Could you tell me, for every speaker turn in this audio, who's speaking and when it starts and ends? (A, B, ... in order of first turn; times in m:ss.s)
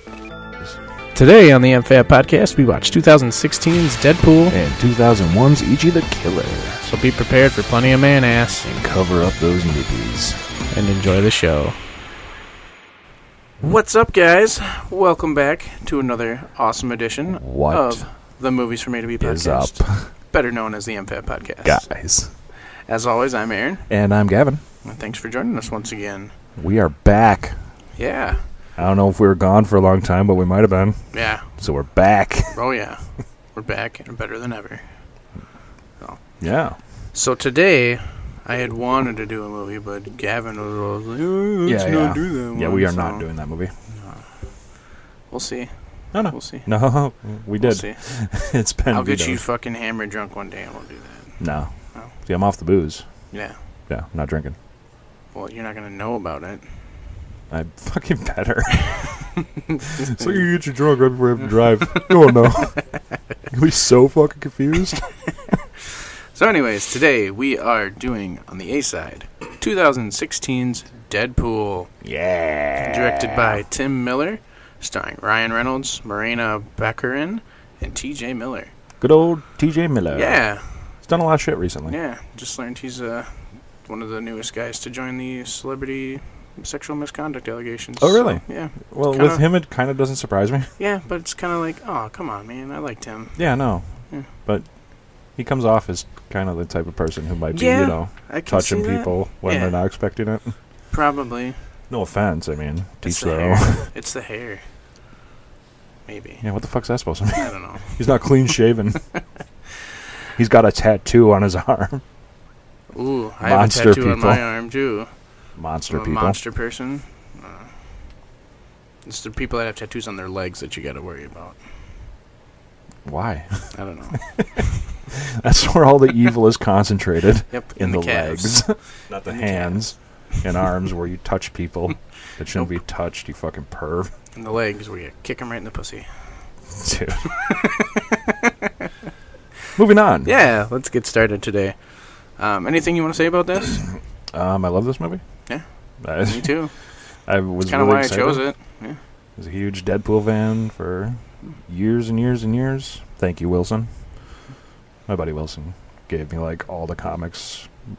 0:01.1-0:04.6 A
0:04.5-0:06.8 B
0:06.8-0:08.7 A
0:08.6-0:10.4 B
0:10.7-0:11.8 A
0:13.6-0:21.9 A
0:17.4-0:18.0 B
0:19.2-0:20.1 B
0:21.6-0:22.3 B
0:22.5-0:23.9 A
0:23.9-0:24.6 B
0:24.8-0:26.3 A
0:26.6-0:27.6 B
0:28.0-0:28.4 A
0:28.8-0:32.6 B
0:31.1-0:31.6 A
0:32.5-0:35.2 A
0:36.0-0:36.5 A
0:36.4-0:36.8 B
0:37.1-0:43.3 A
0:41.6-0:43.7 B
0:43.9-0:44.5 A
0:45.3-0:46.7 A
0:46.1-0:49.4 B
0:47.6-0:52.1 A
0:51.4-0:53.3 B
0:53.3-0:53.6 A
0:53.9-0:54.6 B
0:55.3-0:56.8 A
0:57.5-0:59.3 B
0:59.7-1:00.6 A
1:00.1-1:05.2 B
1:06.3-1:11.9 A
1:12.0-1:13.6 B
1:12.8-1:18.7 A
1:19.0-1:22.0 B
1:20.1-1:20.9 A
1:21.9-1:29.4 A
1:28.0-1:30.7 B
1:30.8-1:34.3 A
1:33.4-1:34.7 B
1:35.2-1:40.5 B
1:37.5-1:39.8 A
1:40.9-1:41.6 A
1:41.9-1:43.9 B
1:43.0-1:44.6 A
1:46.0-1:46.4 A
1:46.4-1:49.0 B
1:47.4-1:48.0 A
1:50.3-1:52.0 B
1:52.9-1:55.1 A
1:53.4-1:54.5 B
1:55.6-1:56.4 B
1:55.9-1:57.7 A
1:59.0-2:01.6 A
2:03.0-2:03.8 B
2:03.7-2:04.7 A
2:04.4-2:14.1 B
2:07.5-2:09.8 A
2:14.3-2:16.1 A
2:16.8-2:17.3 B
2:17.3-2:18.9 A
2:19.7-2:20.3 B
2:20.2-2:23.9 A
2:24.3-2:26.6 B
2:25.4-2:26.7 A
2:27.2-2:28.4 B
2:27.6-2:29.0 A
2:29.4-2:33.9 B
2:35.0-2:37.7 B